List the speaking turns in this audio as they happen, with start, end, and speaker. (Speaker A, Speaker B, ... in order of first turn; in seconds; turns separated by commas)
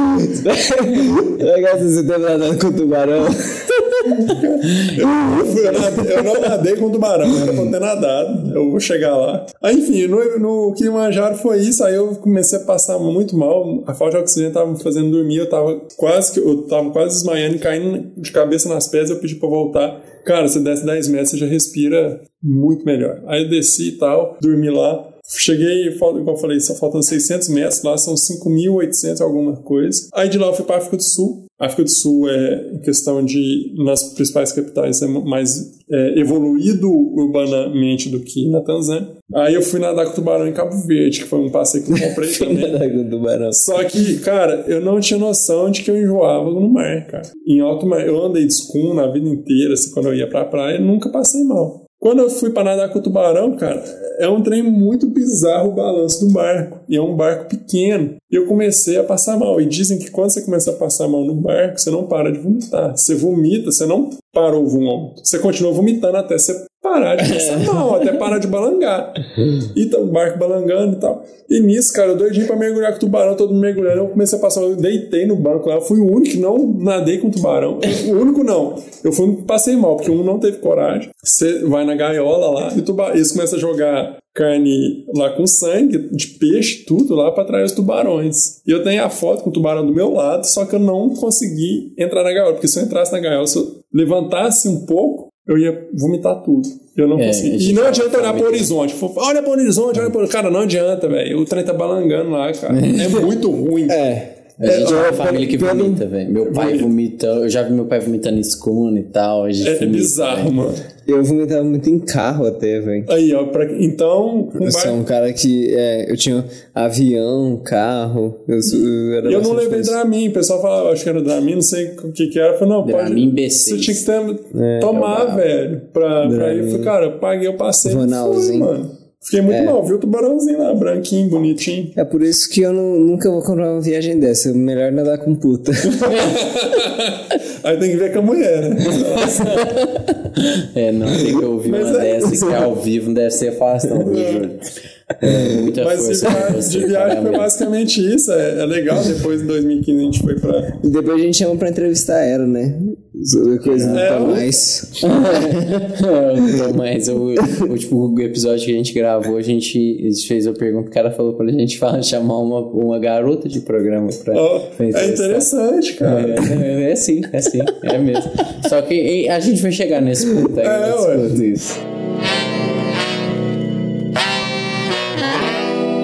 Speaker A: 0.1-6.5, Speaker B: 4.0-42.8, Speaker A: 41.9-43.8, Speaker B: 43.5-104.0, Speaker A: 67.2-68.0, Speaker C: 97.2-98.7, Speaker C: 102.7-103.2, Speaker A: 103.9-106.0, Speaker C: 104.6-110.5, Speaker B: 104.7-105.8, Speaker B: 106.4-106.9, Speaker B: 109.6-110.8, Speaker A: 111.0-113.1, Speaker B: 113.1-115.0, Speaker A: 114.6-120.0, Speaker B: 119.2-131.9, Speaker C: 122.8-124.0, Speaker A: 124.5-125.1, Speaker C: 124.8-125.5, Speaker A: 126.2-126.9, Speaker A: 127.8-128.7, Speaker A: 129.5-129.8, Speaker A: 131.9-136.4, Speaker B: 135.9-139.7, Speaker C: 139.4-144.6, Speaker B: 141.7-142.6, Speaker B: 144.0-144.5, Speaker C: 145.2-147.5, Speaker B: 145.6-150.7, Speaker A: 150.7-155.8, Speaker C: 153.6-165.5, Speaker B: 153.9-154.5, Speaker B: 164.3-166.6, Speaker C: 166.0-171.6, Speaker B: 170.6-171.6